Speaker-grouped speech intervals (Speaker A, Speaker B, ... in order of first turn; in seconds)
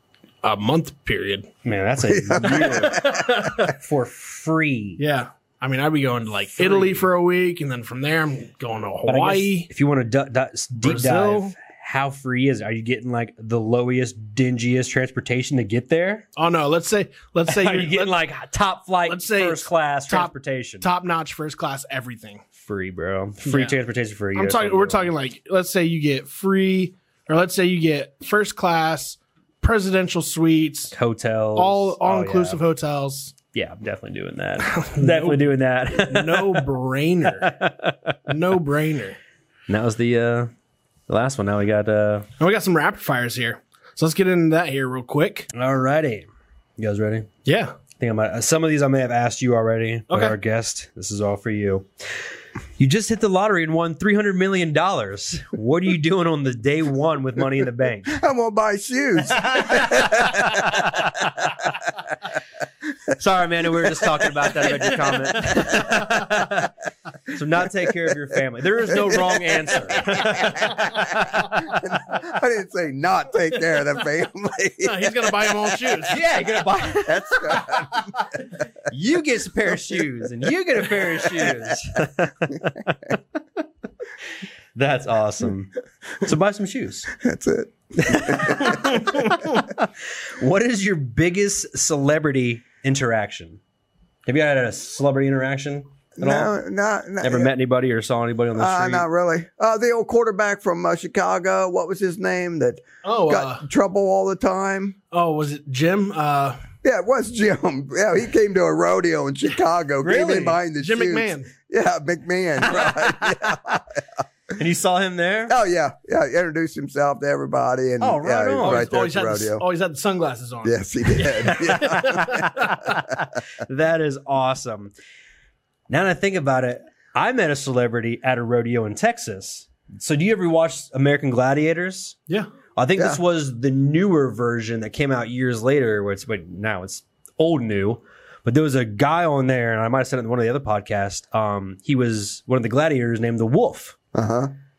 Speaker A: 0.4-1.5, 2.4-3.8, 5.0-9.7, 10.8-11.6, 16.4-18.1, 19.1-22.4, 23.4-23.8, 24.3-30.9, 31.6-33.3, 34.6-37.5, 38.3-39.2, 42.4-45.5, 47.5-47.8, 50.1-50.4, 66.0-66.3, 70.0-71.7, 74.8-76.2, 89.2-89.5, 103.0-103.6, 105.1-106.6, 110.8-111.5, 118.6-122.8
Speaker B: 1.6-5.0, 6.6-7.0, 9.1-16.3, 17.5-20.9, 22.6-25.1, 30.9-32.6, 33.5-36.7, 37.4-38.2, 39.7-40.5, 41.1-42.3, 45.5-46.3, 46.8-47.3, 48.0-51.9, 52.8-58.2, 59.4-61.3, 63.1-66.7, 67.3-71.7, 76.1-77.9, 78.9-83.2, 84.8-87.1, 88.0-89.9, 90.4-93.6, 94.3-96.5, 97.2-99.0, 110.0-110.5, 114.5-115.5, 118.0-118.9, 121.5-124.9, 125.9-132.2, 132.8-143.9
Speaker C: 2.1-3.1, 58.1-61.1, 71.6-75.1, 77.0-78.0, 87.1-89.2, 96.2-97.5, 98.5-105.0, 106.8-114.0, 115.5-119.6, 120.6-122.4, 144.1-144.5